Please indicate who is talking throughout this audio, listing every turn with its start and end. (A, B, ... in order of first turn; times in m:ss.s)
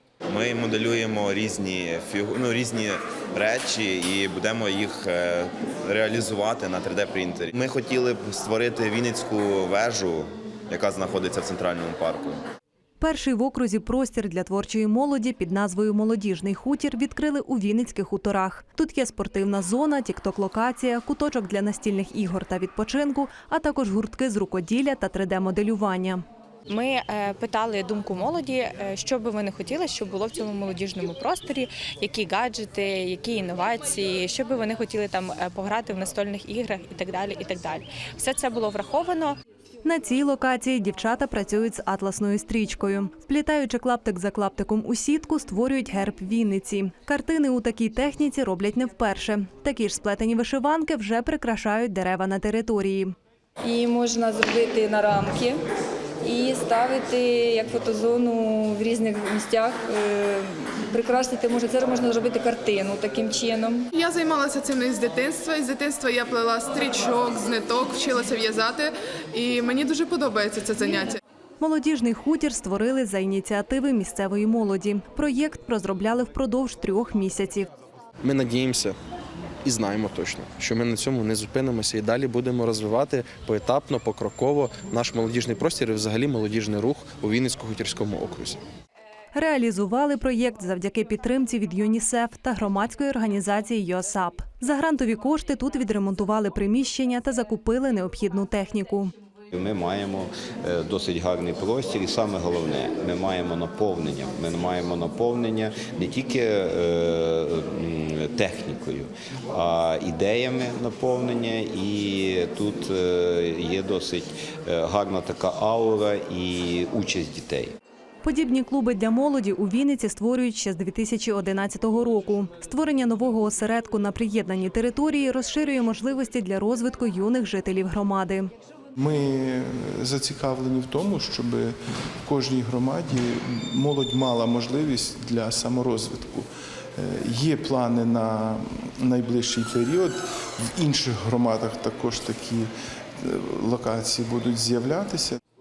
0:00.3-0:12.4 A
0:13.0-0:26.2 B
0:26.7-0:39.4 C
0:39.8-0:53.1 B
0:53.7-0:55.5 D
0:56.3-0:56.9 C
0:56.4-0:57.1 D
0:57.7-1:03.7 D
1:03.9-1:11.2 E
1:11.6-1:17.7 B
1:18.2-1:19.0 F
1:19.6-1:28.6 F
1:29.3-1:39.1 B
1:39.5-1:57.8 G
1:58.2-2:08.5 B
2:09.0-2:25.4 H